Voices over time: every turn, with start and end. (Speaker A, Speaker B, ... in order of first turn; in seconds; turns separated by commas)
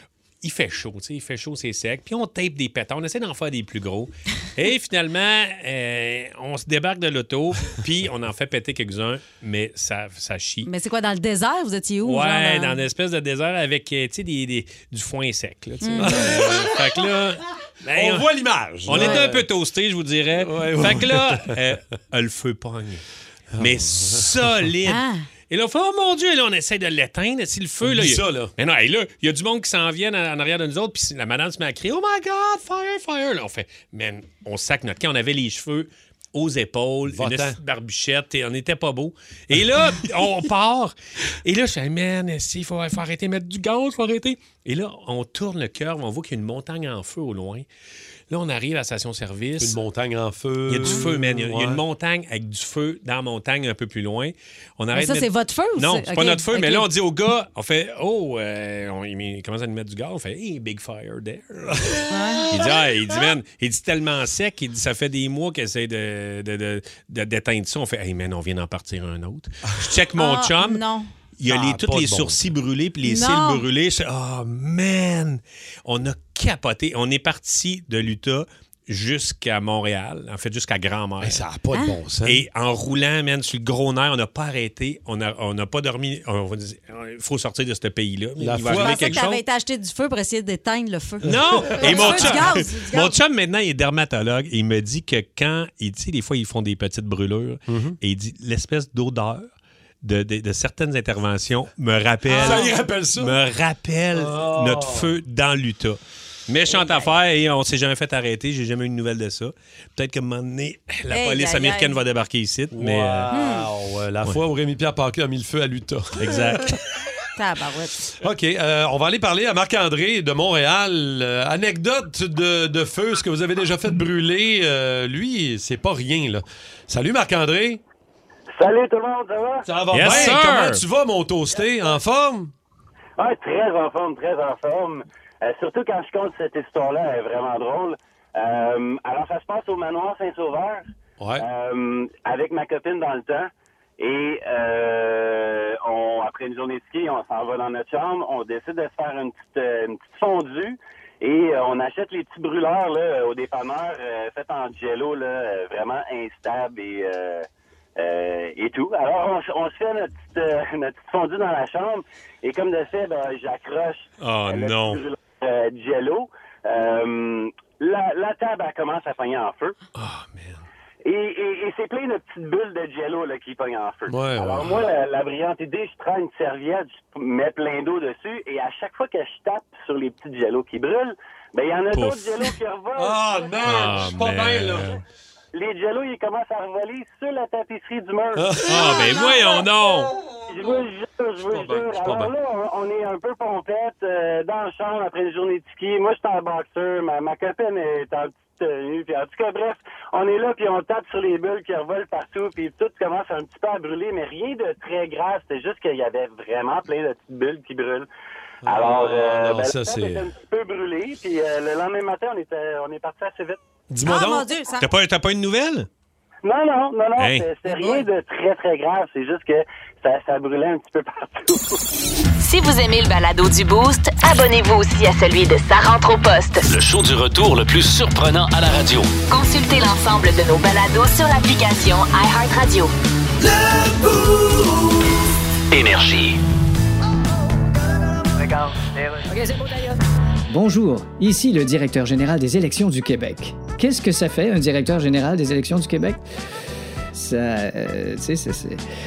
Speaker A: 0.4-10.7, Speaker B: 10.7-12.8, Speaker A: 12.0-18.3, Speaker B: 15.8-16.3, Speaker C: 16.0-16.8, Speaker C: 17.9-19.5, Speaker A: 18.8-23.0, Speaker B: 18.9-19.2, Speaker C: 20.4-21.6, Speaker C: 23.5-24.7, Speaker A: 23.6-47.7, Speaker B: 24.9-25.3, Speaker C: 27.8-28.5, Speaker C: 37.1-37.6, Speaker A: 48.3-49.8, Speaker C: 49.6-51.8, Speaker A: 50.7-70.8, Speaker B: 54.9-56.9, Speaker B: 62.1-62.5, Speaker B: 70.2-71.1, Speaker A: 71.4-81.4, Speaker C: 71.5-72.5, Speaker B: 73.0-73.6, Speaker C: 81.2-82.5, Speaker A: 82.2-89.4, Speaker C: 88.4-89.4, Speaker B: 88.7-93.2, Speaker A: 91.2-99.5, Speaker C: 91.3-92.5, Speaker C: 97.7-98.0, Speaker A: 100.0-113.3, Speaker B: 102.3-102.7, Speaker C: 102.3-103.4, Speaker C: 104.1-105.1, Speaker B: 111.1-112.0, Speaker C: 112.7-116.8, Speaker B: 113.3-113.7, Speaker A: 116.2-116.8, Speaker B: 117.4-118.0, Speaker C: 118.2-127.8, Speaker D: 128.6-129.7, Speaker C: 129.7-132.5, Speaker A: 129.9-130.8, Speaker D: 133.2-140.8, Speaker C: 141.2-141.5, Speaker D: 141.4-169.8, Speaker A: 164.2-165.0, Speaker A: 170.0-170.6, Speaker D: 171.1-183.2, Speaker C: 174.1-174.9, Speaker A: 181.9-182.5, Speaker C: 182.9-184.9, Speaker A: 183.6-185.0, Speaker D: 185.5-188.5, Speaker C: 188.3-189.1, Speaker A: 188.6-190.1, Speaker D: 190.5-208.1, Speaker C: 191.5-192.3, Speaker C: 208.6-210.3, Speaker D: 208.6-213.6, Speaker C: 213.9-214.5, Speaker B: 214.1-214.8, Speaker A: 214.8-215.9, Speaker D: 216.4-221.6, Speaker A: 217.2-217.5, Speaker B: 217.7-218.1, Speaker E: 222.4-226.7, Speaker F: 226.7-229.1, Speaker E: 229.3-232.9, Speaker F: 235.7-236.4, Speaker G: 239.3-239.7, Speaker G: 240.5-246.2, Speaker G: 247.1-248.8